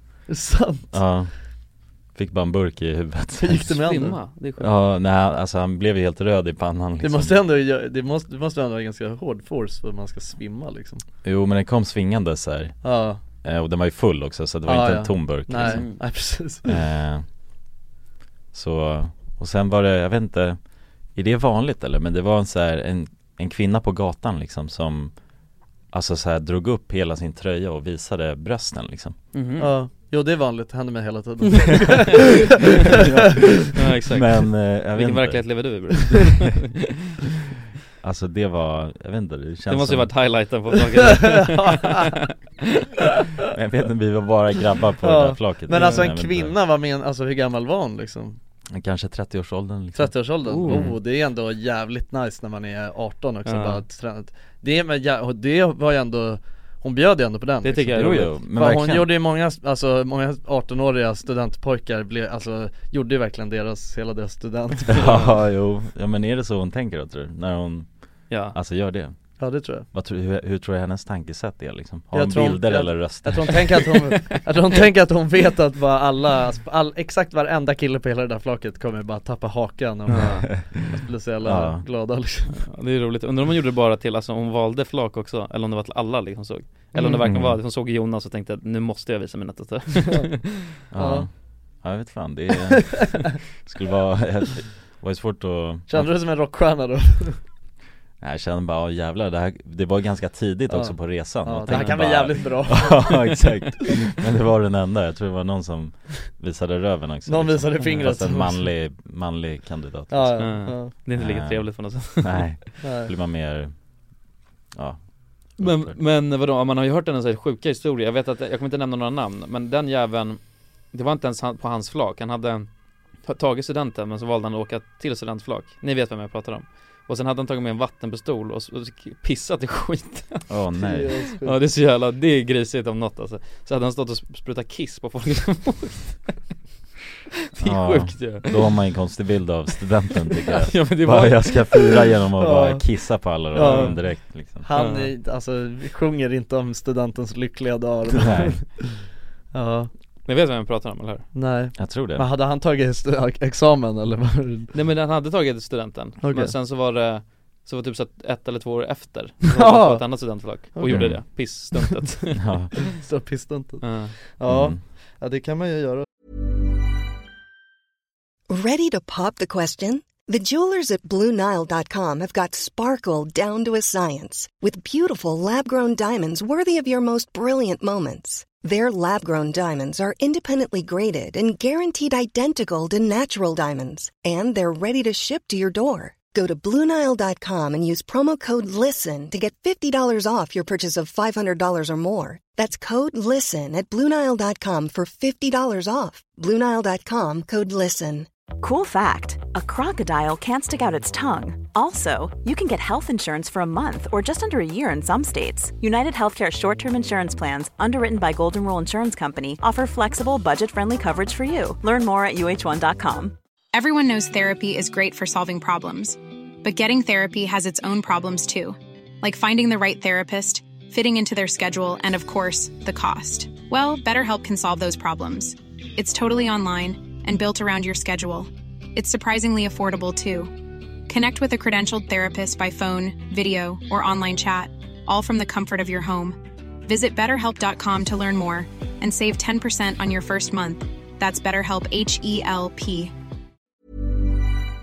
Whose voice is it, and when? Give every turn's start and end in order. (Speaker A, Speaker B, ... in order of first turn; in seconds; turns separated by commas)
Speaker A: 0.2-0.9, Speaker B: 0.9-1.3, Speaker B: 2.1-3.8, Speaker A: 3.4-4.2, Speaker C: 3.8-4.7, Speaker B: 4.6-7.4, Speaker A: 7.0-11.0, Speaker B: 11.2-15.9, Speaker A: 12.8-13.2, Speaker A: 14.7-16.8, Speaker C: 15.6-16.0, Speaker B: 16.6-17.3, Speaker B: 18.5-20.6, Speaker B: 21.1-25.1, Speaker B: 25.9-29.2, Speaker C: 29.3-29.7, Speaker A: 29.6-33.5, Speaker B: 33.0-35.9, Speaker C: 33.7-36.8, Speaker B: 38.0-40.1, Speaker C: 39.7-42.3, Speaker A: 41.2-42.1, Speaker B: 43.5-46.5, Speaker A: 45.0-48.4, Speaker C: 45.7-46.0, Speaker B: 48.7-51.0, Speaker A: 50.0-65.3, Speaker C: 50.5-50.8, Speaker C: 53.5-53.8, Speaker C: 57.6-58.4, Speaker B: 57.9-59.1, Speaker B: 64.9-67.9, Speaker C: 68.3-68.6, Speaker B: 68.5-69.2, Speaker A: 69.4-69.9, Speaker B: 69.9-73.7, Speaker A: 72.1-82.7, Speaker C: 80.1-80.5, Speaker B: 80.2-81.8, Speaker C: 82.6-90.6, Speaker A: 87.0-87.2, Speaker B: 87.2-87.6, Speaker B: 90.9-96.1, Speaker A: 91.0-91.3, Speaker A: 92.8-93.3, Speaker A: 95.9-97.4, Speaker B: 98.2-113.7, Speaker A: 100.7-103.3, Speaker C: 101.7-102.0, Speaker A: 107.3-108.7, Speaker C: 107.8-108.1, Speaker A: 110.1-110.9, Speaker C: 110.4-112.6, Speaker A: 112.8-113.1, Speaker B: 114.7-116.0, Speaker C: 115.6-120.4, Speaker C: 120.9-122.7, Speaker C: 123.2-130.5, Speaker B: 130.5-131.2, Speaker A: 130.8-131.6, Speaker C: 131.4-136.3, Speaker C: 137.5-138.8, Speaker B: 137.6-144.7, Speaker C: 140.4-142.0, Speaker A: 142.4-142.8, Speaker A: 143.5-148.8, Speaker C: 143.6-144.0, Speaker C: 144.8-145.1, Speaker B: 148.2-148.6, Speaker A: 149.5-149.9, Speaker C: 150.2-151.3, Speaker A: 151.3-154.7, Speaker B: 151.8-152.3, Speaker C: 154.7-162.4, Speaker A: 156.2-156.5, Speaker A: 159.5-160.1, Speaker A: 160.7-161.2, Speaker B: 160.9-161.2, Speaker B: 162.4-162.7, Speaker A: 162.9-166.1, Speaker C: 163.8-164.2, Speaker B: 164.5-164.8, Speaker D: 168.5-198.3, Speaker E: 198.6-213.4, Speaker F: 213.7-230.5, Speaker F: 231.1-243.1